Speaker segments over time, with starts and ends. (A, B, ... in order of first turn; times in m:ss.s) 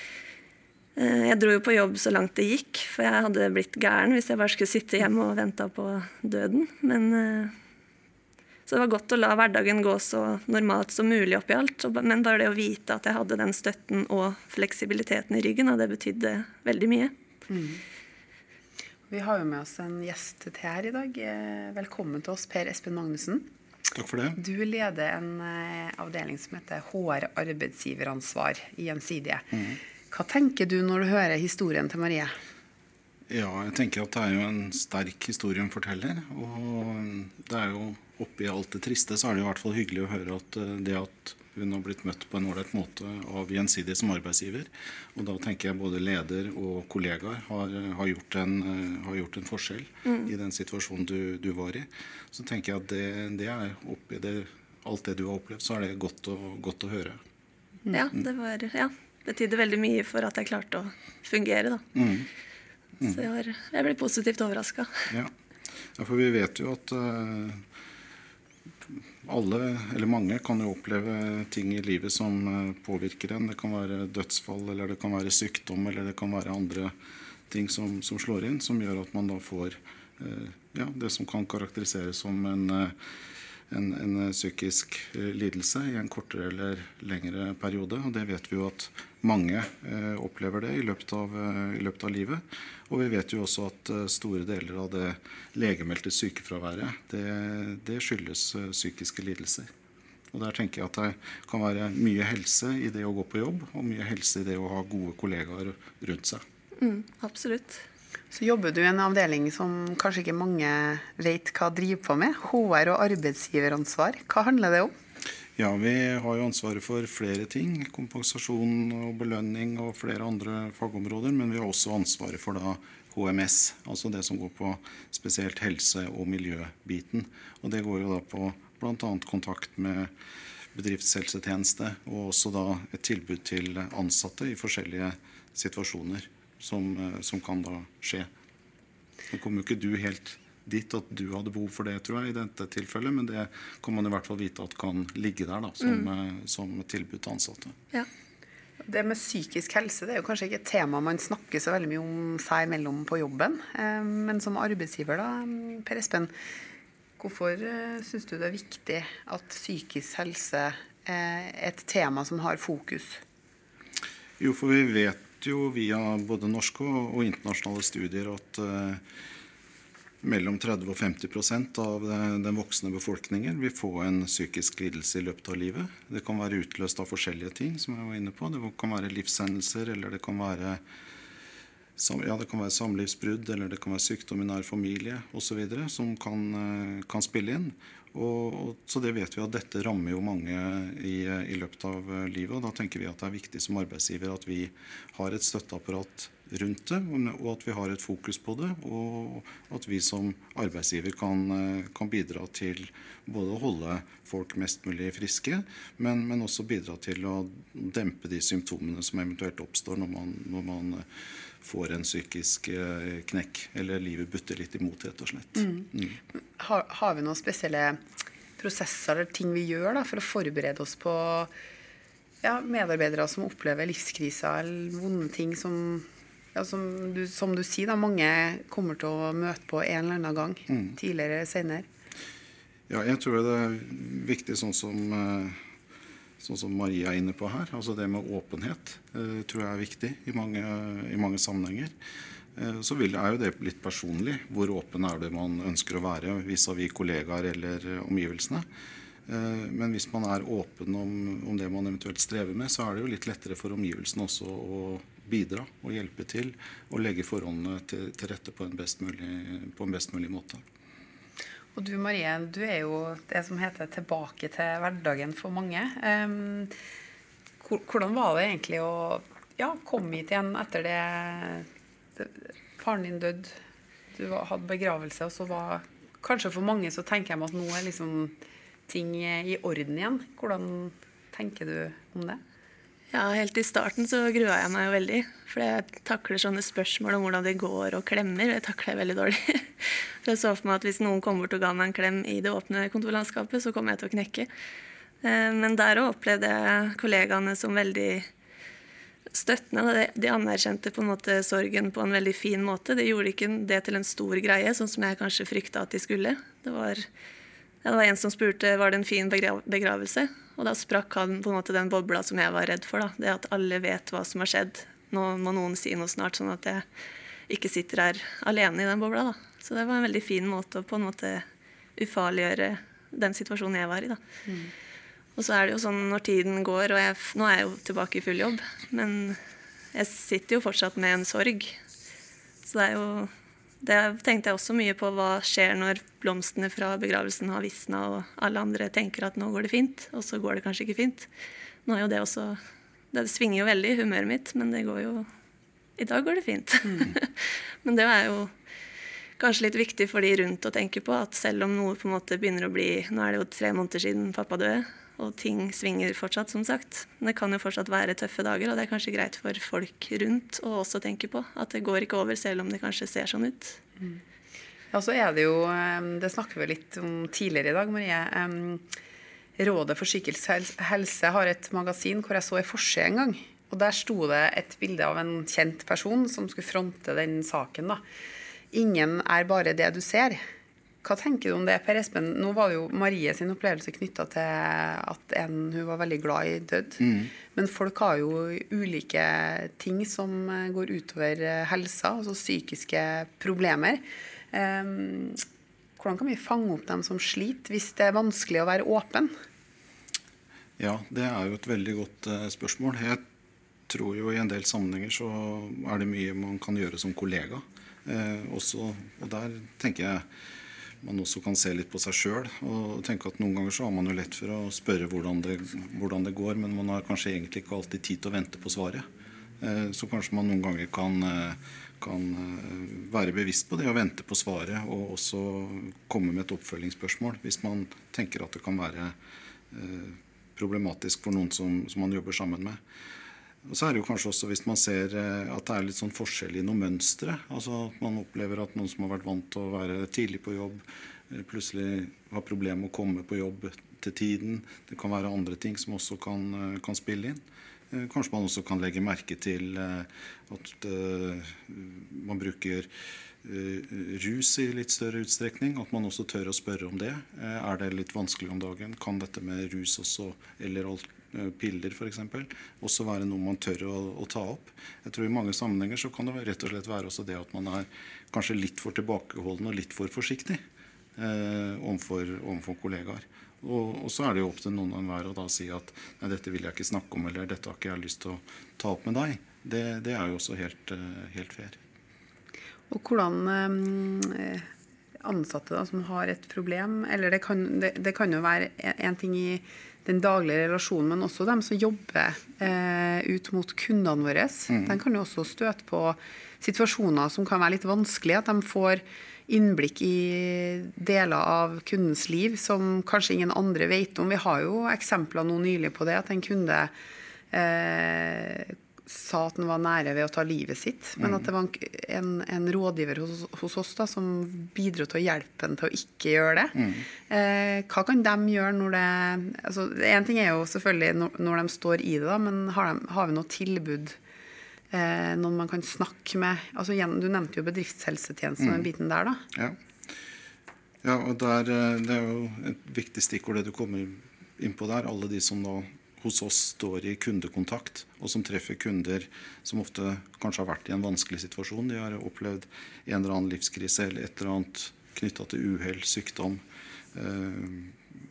0:01.0-0:07.5 A
0:08.6-0:17.1 A
0:17.5-0:17.8 B
0:19.1-0:23.5 B
0:23.9-0:24.4 C
0:24.4-0:29.5 B
0:30.1-0:32.3 B
0:33.3-0:57.2 C
0:57.9-1:01.8 A
1:01.9-1:02.3 C
1:03.0-1:04.9 A
1:06.0-1:07.6 C
1:09.2-1:16.9 C
1:17.5-1:22.9 C
1:23.7-1:39.7 C
1:40.3-1:46.4 C
1:46.8-1:47.8 A
1:48.3-1:54.9 B
1:55.6-2:10.1 C
2:10.7-2:18.3 C
2:19.3-2:27.7 C
2:25.8-2:26.1 A
2:28.8-2:36.3 B
2:37.2-2:43.2 B
2:44.4-2:49.0 C
2:50.2-3:00.8 C
3:02.0-3:31.0 C
3:31.6-3:36.2 C
3:35.6-3:35.9 B
3:36.6-3:38.0 B
3:38.6-3:41.5 B
3:42.4-3:51.8 B
3:52.9-3:55.6 C
3:56.4-4:01.9 C
4:02.6-4:08.6 C
4:09.3-4:20.6 C
4:21.7-4:26.7 B
4:27.6-4:33.5 B
4:34.1-4:42.4 B
4:43.1-4:54.5 A
4:55.2-4:58.3 A
4:59.3-5:07.0 A
5:07.8-5:16.8 A
5:17.5-5:21.4 A
5:22.0-5:24.2 A
5:25.4-5:29.4 A
5:29.9-5:31.7 A
5:32.6-5:33.3 A
5:33.8-5:41.3 A
5:41.8-5:42.6 A
5:43.1-5:45.2 A
5:46.0-5:48.5 A
5:49.4-6:03.8 A
6:04.9-6:08.8 B
6:09.6-6:18.0 B
6:18.7-6:20.4 B
6:21.0-6:35.4 B
6:27.0-6:27.3 C
6:36.0-6:39.3 B
6:40.8-6:43.2 C
6:43.9-6:50.2 C
6:51.0-6:59.0 C
6:59.6-7:09.1 C
7:09.7-7:12.8 C
7:13.6-7:32.9 C
7:33.4-7:50.6 C
7:51.2-8:01.8 C
8:02.9-8:04.6 B
8:05.2-8:26.9 B
8:27.5-8:44.2 B
8:31.2-8:31.4 C
8:36.8-8:37.0 C
8:44.9-8:49.4 B
8:48.6-8:48.9 C
8:51.0-9:06.6 C
9:07.1-9:08.0 C